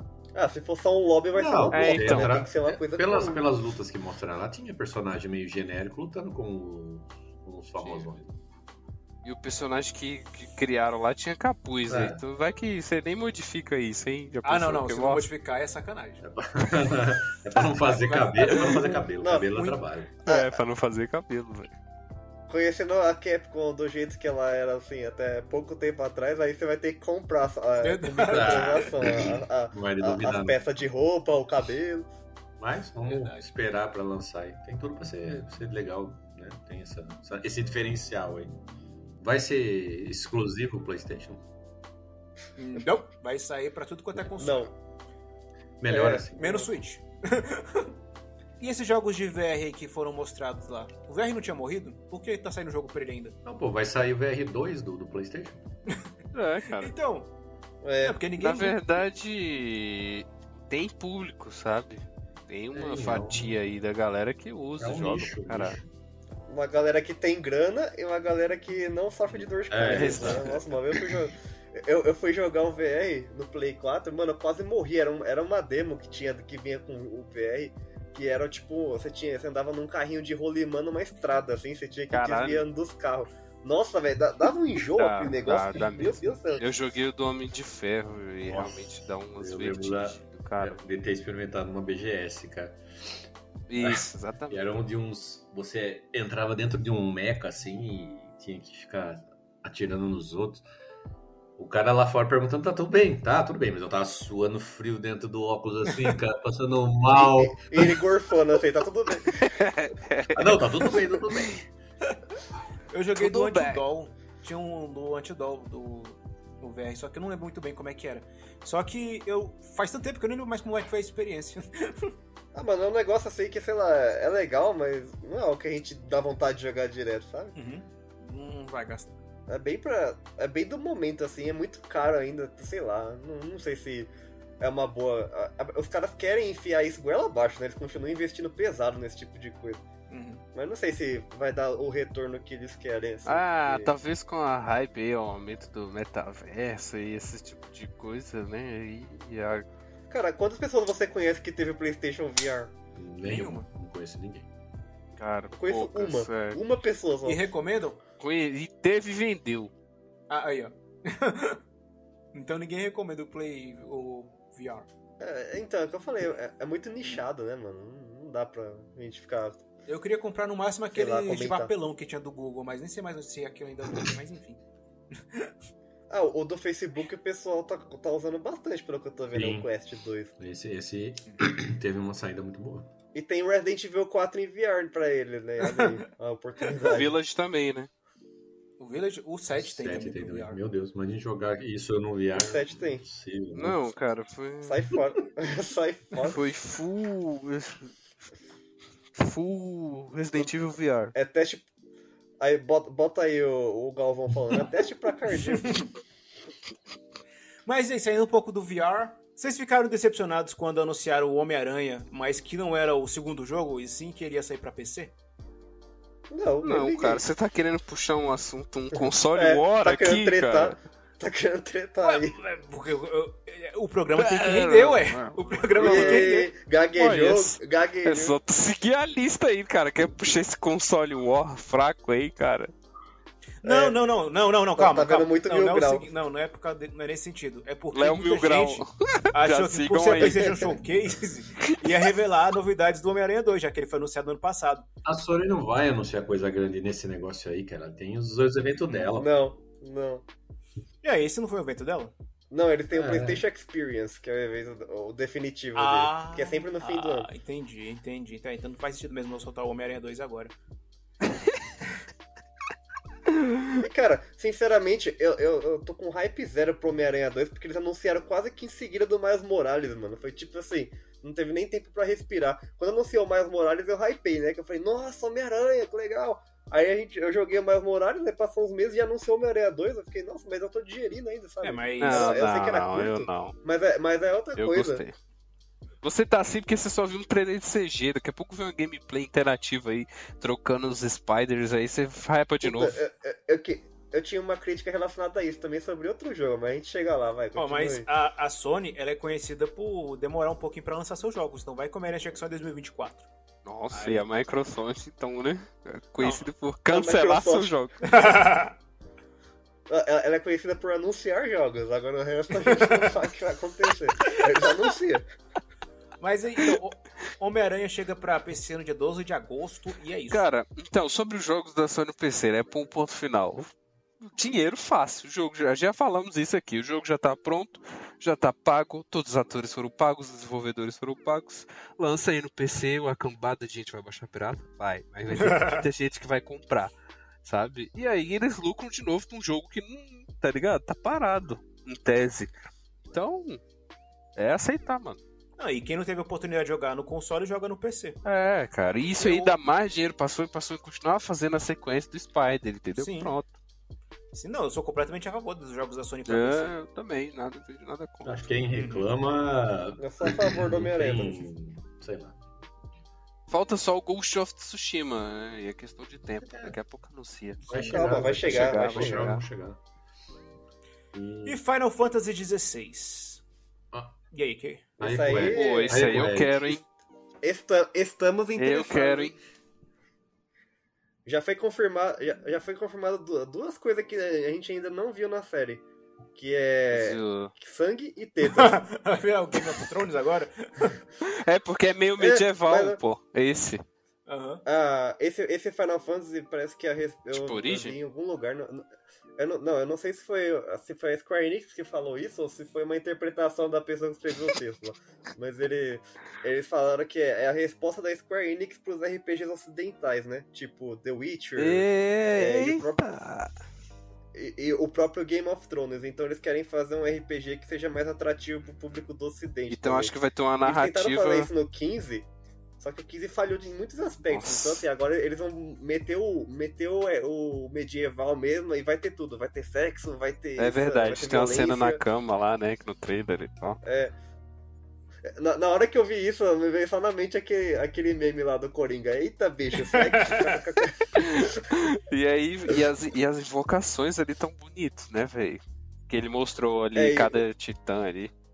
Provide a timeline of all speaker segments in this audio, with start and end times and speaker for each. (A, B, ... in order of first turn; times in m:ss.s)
0:00.3-0:03.4 A
0:01.3-0:08.3 B
0:01.7-0:02.3 C
0:07.8-0:08.1 C
0:09.2-0:15.2 C
0:11.9-0:12.2 B
0:14.4-0:16.2 D
0:16.2-0:20.1 B
0:17.9-0:19.0 D
0:19.2-0:19.7 A
0:20.2-0:20.6 A
0:20.2-0:21.7 C
0:22.5-0:32.1 A
0:27.8-0:28.9 D
0:28.3-0:30.6 B
0:32.6-0:38.6 B
0:33.0-0:33.4 D
0:39.2-0:41.4 B
0:42.6-0:44.7 D
0:44.4-0:44.7 A
0:45.8-0:46.6 B
0:45.9-0:46.6 A
0:46.4-0:47.9 D
0:48.6-0:53.4 D
0:53.4-0:55.7 B
0:56.3-0:56.9 C
0:56.7-0:57.3 D
0:57.8-0:58.2 A
0:58.0-0:58.8 D
0:58.4-1:05.8 C
1:02.7-1:03.5 B
1:04.8-1:05.9 B
1:06.5-1:26.6 A
1:09.3-1:11.2 B
1:09.8-1:10.6 C
1:22.1-1:22.6 C
1:24.9-1:30.8 C
1:28.4-1:33.2 B
1:33.7-1:34.6 C
1:33.8-1:40.6 B
1:41.6-1:48.0 B
1:47.1-1:49.6 A
1:49.4-1:50.9 C
1:50.3-1:51.7 B
1:52.9-2:02.1 D
1:53.2-1:53.8 C
2:02.5-2:07.6 A
2:07.5-2:09.1 D
2:09.5-2:19.8 A
2:20.1-2:20.4 D
2:20.5-2:23.9 A
2:23.2-2:29.6 C
2:30.1-2:32.7 A
2:33.0-2:34.5 B
2:33.2-2:33.7 D
2:35.2-2:36.6 C
2:35.5-2:37.5 A
2:37.2-2:38.0 D
2:38.2-2:39.7 C
2:40.3-2:41.6 D
2:42.3-2:44.9 D
2:45.2-2:49.6 A
2:49.9-2:54.6 D
2:50.9-2:51.7 A
2:56.1-3:00.3 A
2:59.3-2:59.7 B
3:00.4-3:02.9 B
3:03.1-3:07.1 A
3:05.6-3:06.0 D
3:06.8-3:07.9 C
3:08.8-3:10.6 D
3:09.5-3:13.8 B
3:12.3-3:13.0 A
3:13.5-3:14.9 C
3:14.6-3:16.4 A
3:16.3-3:17.9 C
3:19.2-3:21.1 C
3:21.1-3:21.6 A
3:22.4-3:25.8 A
3:25.6-3:25.9 D
3:27.6-3:35.1 D
3:36.3-3:37.2 A
3:36.6-3:40.8 C
3:39.3-3:42.4 A
3:42.0-3:46.5 D
3:44.2-3:46.3 C
3:45.8-3:48.4 A
3:47.0-3:52.7 C
3:53.6-4:04.8 D
3:53.6-3:54.0 A
3:54.8-3:56.1 A
3:57.9-4:00.6 C
4:00.1-4:00.7 A
4:05.0-4:09.3 B
4:09.1-4:10.2 A
4:11.0-4:12.1 D
4:12.5-4:17.3 A
4:12.9-4:13.4 B
4:15.7-4:20.5 D
4:23.8-4:45.0 A
4:41.6-4:42.4 D
4:42.0-4:43.5 C
4:44.6-4:45.1 C
4:46.0-4:53.0 C
4:52.6-4:58.1 A
4:57.5-5:03.3 D
5:03.6-5:08.1 C
5:03.9-5:04.3 D
5:06.2-5:06.5 D
5:06.9-5:07.7 A
5:08.0-5:08.7 D
5:09.9-5:15.3 A
5:12.6-5:13.0 D
5:16.2-5:20.4 D
5:20.3-5:23.7 C
5:24.3-5:36.9 C
5:35.3-5:35.8 D
5:37.4-5:42.5 C
5:43.1-5:43.6 C
5:44.4-5:45.2 C
5:45.6-5:48.2 D
5:48.2-5:53.5 C
5:49.2-5:49.5 D
5:52.9-5:53.3 D
5:54.3-5:56.7 D
5:56.3-5:58.5 C
5:58.2-6:02.4 B
5:58.7-5:59.1 D
6:00.0-6:01.5 A
6:03.5-6:09.4 C
6:06.4-6:06.8 B
6:07.7-6:09.8 B
6:07.7-6:09.3 A
6:11.1-6:11.6 B
6:11.4-6:13.4 D
6:13.9-6:14.2 B
6:14.3-6:14.9 D
6:15.0-6:16.8 B
6:15.0-6:16.2 A
6:15.3-6:16.8 C
6:17.4-6:19.3 A
6:18.6-6:19.4 C
6:21.2-6:25.8 A
6:26.3-6:28.8 A
6:26.9-6:27.5 C
6:28.4-6:31.0 D
6:31.2-6:33.8 C
6:32.2-6:33.0 A
6:34.3-6:34.6 D
6:34.6-6:38.9 A
6:37.3-6:38.0 C
6:39.4-6:53.0 A
6:51.6-6:53.5 C
6:54.3-7:02.3 A
6:59.7-7:01.5 C
7:02.8-7:12.0 A
7:04.3-7:04.8 C
7:10.6-7:13.8 C
7:13.8-7:14.1 A
7:15.2-7:21.6 A
7:19.8-7:20.6 D
7:21.1-7:28.3 C
7:26.9-7:27.4 A